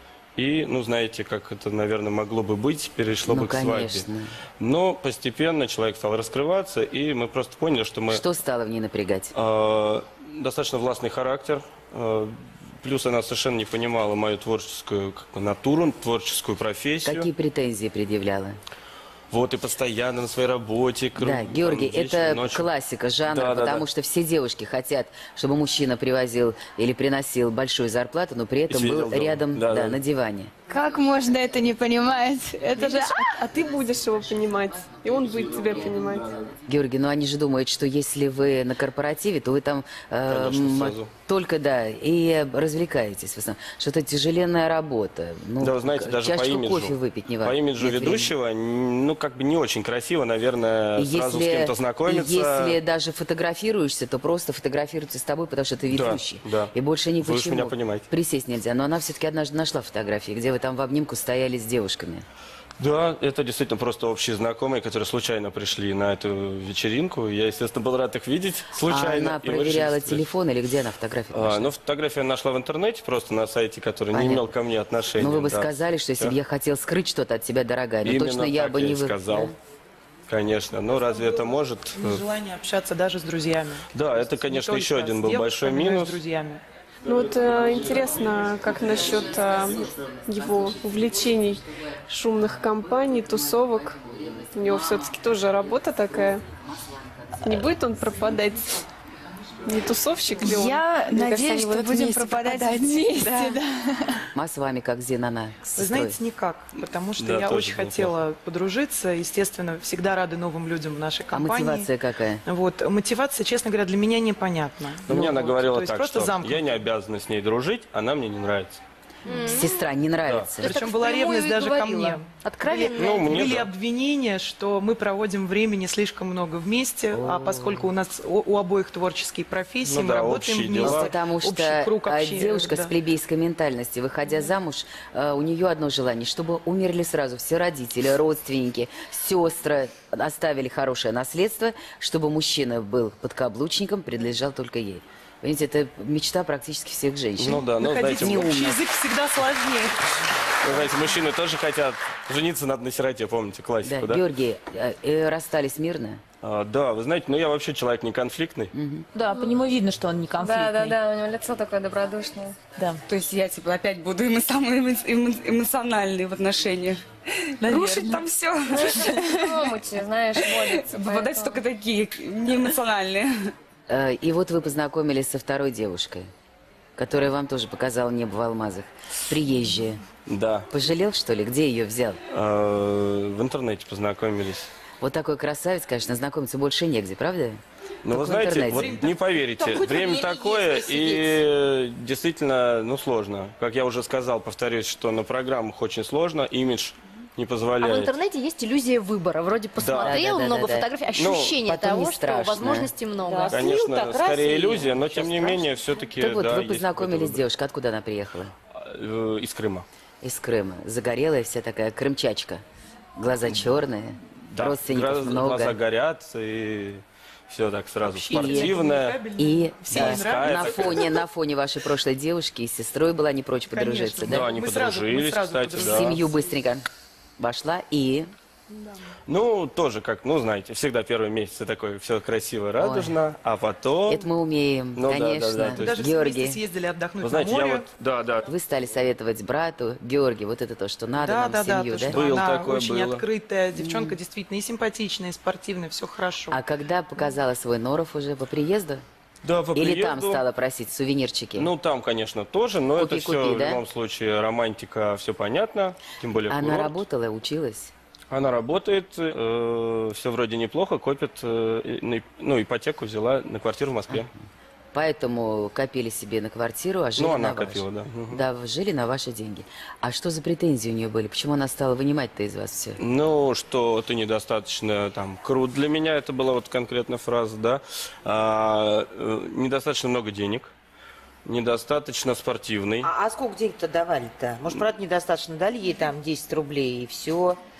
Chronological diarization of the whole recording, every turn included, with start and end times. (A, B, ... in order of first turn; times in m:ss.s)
0:00.4-0:04.0 A
0:03.3-0:04.3 B
0:04.6-0:08.2 A
0:08.1-0:09.3 B
0:09.3-0:17.3 A
0:17.0-0:18.6 B
0:19.3-0:22.7 A
0:21.2-0:30.5 B
0:23.3-0:23.8 A
0:28.7-0:30.0 A
0:30.7-0:33.5 C
0:32.7-0:36.3 D
0:36.7-0:48.3 B
0:40.3-0:41.1 A
0:45.6-0:52.8 A
0:51.0-1:02.2 B
0:55.9-0:58.1 A
1:02.8-1:10.2 A
1:08.8-1:11.7 B
1:11.3-1:16.3 A
1:14.1-1:14.5 B
1:15.2-1:19.5 B
1:18.0-1:19.5 A
1:20.3-1:22.2 A
1:21.0-1:26.6 E
1:23.9-1:26.2 A
1:27.0-1:36.4 D
1:37.4-1:38.8 D
1:39.7-1:41.8 D
1:40.5-1:43.6 F
1:41.8-1:44.3 C
1:44.3-1:46.2 B
1:45.8-1:51.9 E
1:47.2-1:48.1 A
1:51.3-1:52.4 B
1:52.5-1:56.8 E
1:55.1-1:58.8 A
1:59.3-1:59.8 G
1:59.3-2:00.7 B
2:00.6-2:12.9 E
2:00.6-2:03.3 G
2:03.0-2:03.7 A
2:07.1-2:07.9 B
2:09.8-2:11.1 A
2:10.8-2:27.6 B
2:27.4-2:28.8 A
2:27.8-2:30.0 E
2:30.6-2:34.2 A
2:33.8-2:36.2 B
2:36.4-2:38.7 A
2:38.7-2:39.1 B
2:39.1-2:41.0 F
2:40.4-2:42.6 H
2:42.8-2:43.0 F
2:43.0-2:53.5 I
2:47.6-2:48.3 F
2:48.7-2:51.6 H
2:53.9-2:56.3 B
2:57.0-3:00.0 B
3:00.3-3:00.7 A
3:00.7-3:02.2 B
3:02.3-3:04.7 A
3:05.0-3:09.0 B
3:08.0-3:18.1 A
3:08.7-3:10.4 E
3:17.8-3:23.6 G
3:19.8-3:20.2 A
3:20.0-3:20.9 B
3:21.2-3:21.6 A
3:21.6-3:22.9 B
3:23.2-3:25.7 J
3:23.5-3:27.4 A
3:26.2-3:28.5 B
3:28.7-3:29.8 A
3:30.2-3:32.6 B
3:33.2-3:35.8 B
3:34.5-3:39.2 A
3:38.0-3:41.1 E
3:38.3-3:38.7 B
3:39.4-3:44.5 B
3:39.9-3:41.2 A
3:43.7-3:46.4 E
3:44.2-3:46.2 A
3:45.8-3:46.8 B
3:47.4-3:48.3 B
3:49.3-3:54.3 A
3:52.8-3:53.2 B
3:54.1-3:56.6 B
3:55.0-3:56.0 A
3:55.7-3:57.8 E
3:57.2-3:58.5 A
3:58.5-4:02.2 B
4:01.2-4:06.6 E
4:02.1-4:03.2 A
4:03.8-4:04.2 B
4:06.5-4:09.0 B
4:09.4-4:10.4 A
4:09.8-4:11.7 B
4:11.6-4:17.0 A
4:13.0-4:13.8 B
4:16.5-4:17.9 B
4:18.3-4:24.3 A
4:24.9-4:33.0 B
4:27.2-4:28.4 A
4:33.0-4:40.7 A
4:41.5-4:43.1 A
4:43.0-4:47.6 J